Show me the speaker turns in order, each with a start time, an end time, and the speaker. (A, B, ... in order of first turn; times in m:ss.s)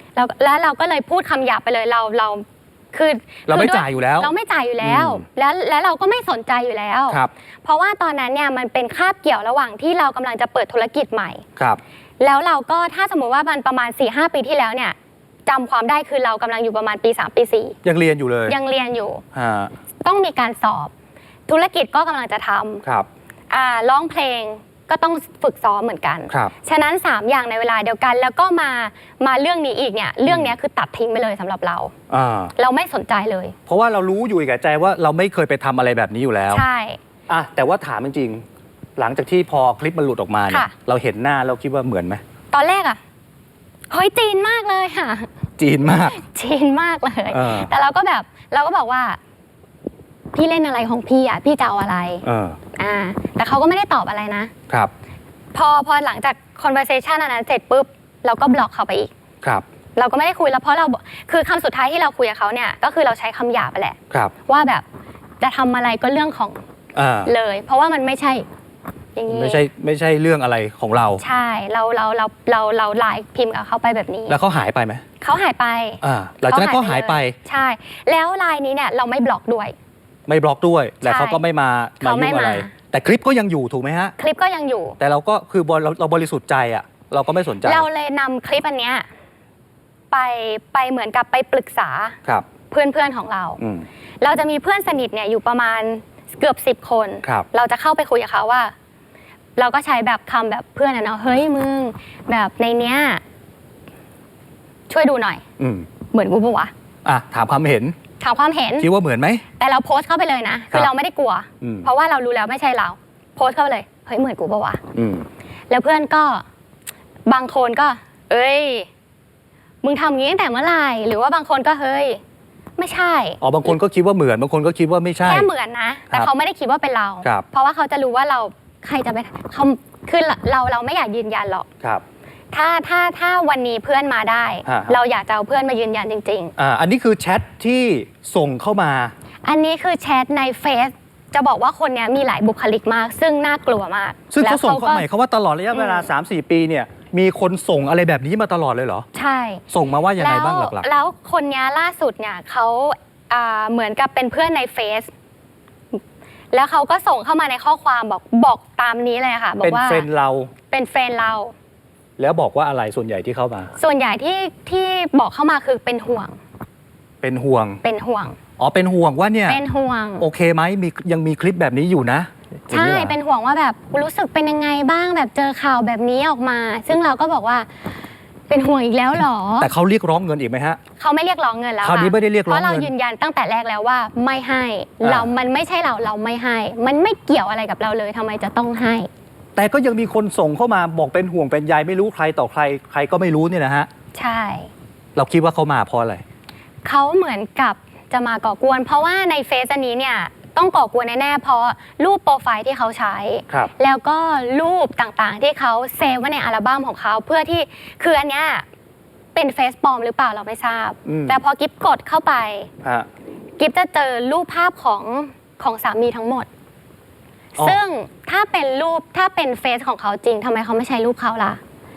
0:00.2-0:11.4 A
0:03.5-0:05.2 B
0:12.2-0:17.8 A
0:17.8-0:18.6 B
0:18.5-0:19.2 A
0:19.3-0:19.7 B
0:20.0-0:20.9 A
0:21.5-0:22.8 A
0:23.5-0:31.9 A
0:30.3-0:30.5 B
0:32.1-0:32.5 B
0:32.6-0:33.6 A
0:33.7-0:36.6 B
0:36.5-0:37.0 A
0:37.3-0:38.4 B
0:39.0-0:42.2 B
0:42.5-0:43.0 A
0:43.9-0:45.3 A
0:45.6-0:46.2 B
0:46.0-0:49.2 A
0:47.3-0:47.7 B
0:50.3-0:52.2 A
0:52.2-0:52.6 B
0:52.8-0:54.5 A
0:55.5-0:59.1 A
1:00.0-1:04.8 A
1:05.4-1:06.6 A
1:07.0-1:07.3 B
1:07.2-1:08.5 A
1:09.2-1:09.6 A
1:09.3-1:11.2 B
1:11.2-1:14.4 A
1:14.3-1:15.0 B
1:15.2-1:19.8 A
1:16.0-1:17.4 B
1:20.3-1:24.2 B
1:21.0-1:21.4 A
1:22.0-1:22.7 A
1:24.2-1:25.0 A
1:25.0-1:27.9 B
1:27.6-1:29.1 A
1:30.1-1:32.2 A
1:32.7-1:33.6 A
1:33.6-1:33.9 B
1:34.2-1:38.7 A
1:39.6-1:43.2 A
1:44.9-1:45.4 A
1:45.6-1:45.9 B
1:46.1-1:46.7 A
1:47.0-1:48.0 B
1:48.2-1:48.9 A
1:48.8-1:49.4 B
1:49.6-1:54.8 A
1:51.6-1:51.9 B
1:54.9-1:55.3 B
1:55.7-1:56.4 A
1:57.3-1:58.9 A
1:59.8-2:02.2 A
2:02.8-2:03.4 A
2:03.4-2:05.5 B
2:05.2-2:11.7 A
2:12.5-2:16.5 A
2:14.6-2:15.0 B
2:16.6-2:19.1 B
2:19.4-2:25.0 A
2:24.3-2:29.1 B
2:25.7-2:26.1 A
2:29.1-2:29.6 A
2:29.7-2:30.9 B
2:30.2-2:35.1 A
2:36.5-2:40.1 A
2:39.6-2:40.5 B
2:40.7-2:41.5 A
2:42.2-2:43.7 B
2:43.8-2:46.4 A
2:47.2-2:47.8 B
2:47.8-2:48.4 A
2:48.6-2:49.6 B
2:49.5-2:50.3 A
2:50.2-2:53.2 B
2:52.7-2:57.7 A
2:58.5-2:59.7 A
2:59.6-3:00.8 B
3:01.0-3:09.1 A
3:01.8-3:02.9 B
3:05.0-3:05.3 B
3:09.6-3:13.9 B
3:14.1-3:14.7 A
3:15.2-3:16.2 B
3:16.8-3:28.6 A
3:29.4-3:32.7 A
3:31.1-3:31.4 B
3:33.6-3:36.5 A
3:37.6-3:41.6 A